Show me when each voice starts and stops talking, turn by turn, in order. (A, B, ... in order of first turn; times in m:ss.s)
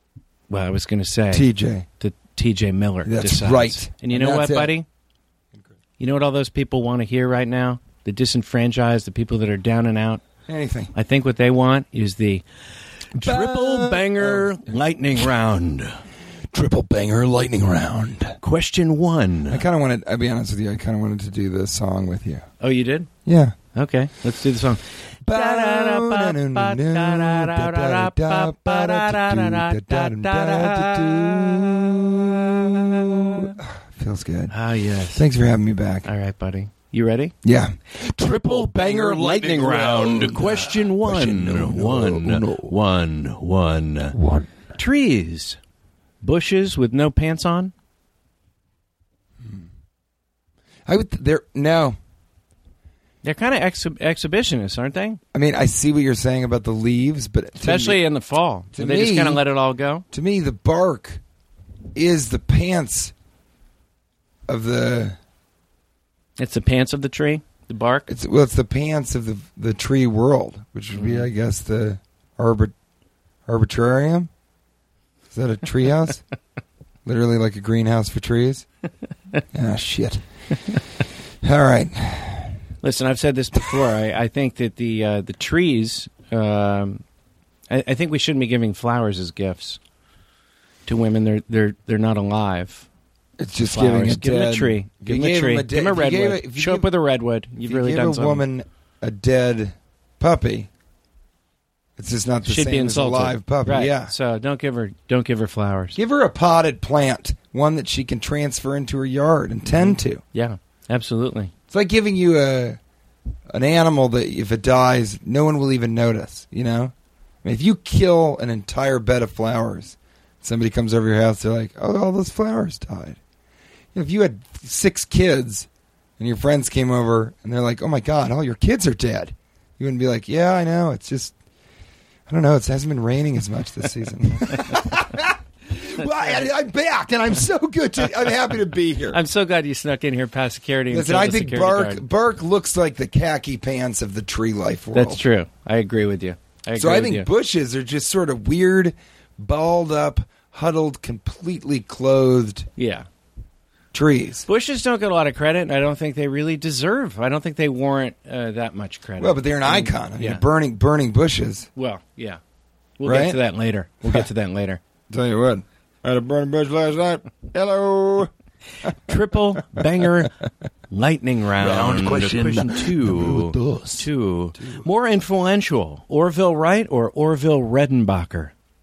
0:00.5-0:01.5 A
0:01.3-0:01.9 B
0:02.0-0:04.9 A
0:03.0-0:04.7 B
0:06.0-0:10.2 A
0:10.5-0:10.9 B
0:10.9-0:12.4 A
0:13.2-0:16.0 A
0:13.2-0:15.3 B
0:16.5-0:18.4 B
0:18.4-0:19.6 A
0:19.5-0:22.4 B
0:22.6-0:23.1 A
0:23.2-0:23.6 B
0:23.7-0:33.6 A
0:25.2-0:34.5 B
0:34.5-0:35.3 A
0:35.1-0:36.1 B
0:36.0-0:37.3 A
0:37.4-0:42.7 B
0:38.2-0:44.2 A
0:44.2-0:44.4 B
0:44.7-0:45.6 A
0:46.2-0:47.7 A
0:50.9-0:52.0 B
0:53.2-0:55.2 A
0:55.3-0:58.0 B
0:57.6-1:00.0 A
0:58.7-0:59.4 B
1:00.1-1:01.2 B
1:01.9-1:03.1 B
1:04.5-1:05.2 B
1:06.4-1:08.1 A
1:08.1-1:12.7 B
1:11.0-1:11.3 A
1:13.4-1:14.3 B
1:15.3-1:16.2 B
1:17.0-1:18.7 B
1:19.5-1:20.2 B
1:21.4-1:22.6 B
1:22.8-1:27.0 A
1:27.7-1:29.8 A
1:30.9-1:32.9 A
1:33.4-1:36.9 B
1:33.6-1:38.4 A
1:37.6-1:40.7 B
1:42.0-1:44.1 B
1:42.4-1:46.0 A
1:46.0-1:50.2 B
1:49.7-1:51.5 A
1:51.7-1:52.8 B
1:53.5-1:56.9 B
1:57.4-2:03.2 B
2:03.9-2:05.7 B
2:06.2-2:11.4 B
2:12.3-2:19.2 B
2:16.0-2:16.5 A
2:19.1-2:22.0 A
2:20.9-2:25.2 B
2:24.9-2:27.3 A
2:26.8-2:32.7 B
2:32.8-2:33.1 A
2:33.9-2:34.5 B
2:34.5-2:40.4 A
2:39.2-2:41.7 B
2:41.8-2:42.4 A
2:43.0-2:44.8 A
2:43.0-2:43.4 B
2:45.1-2:48.3 B
2:49.0-2:58.5 A
2:51.6-2:54.8 B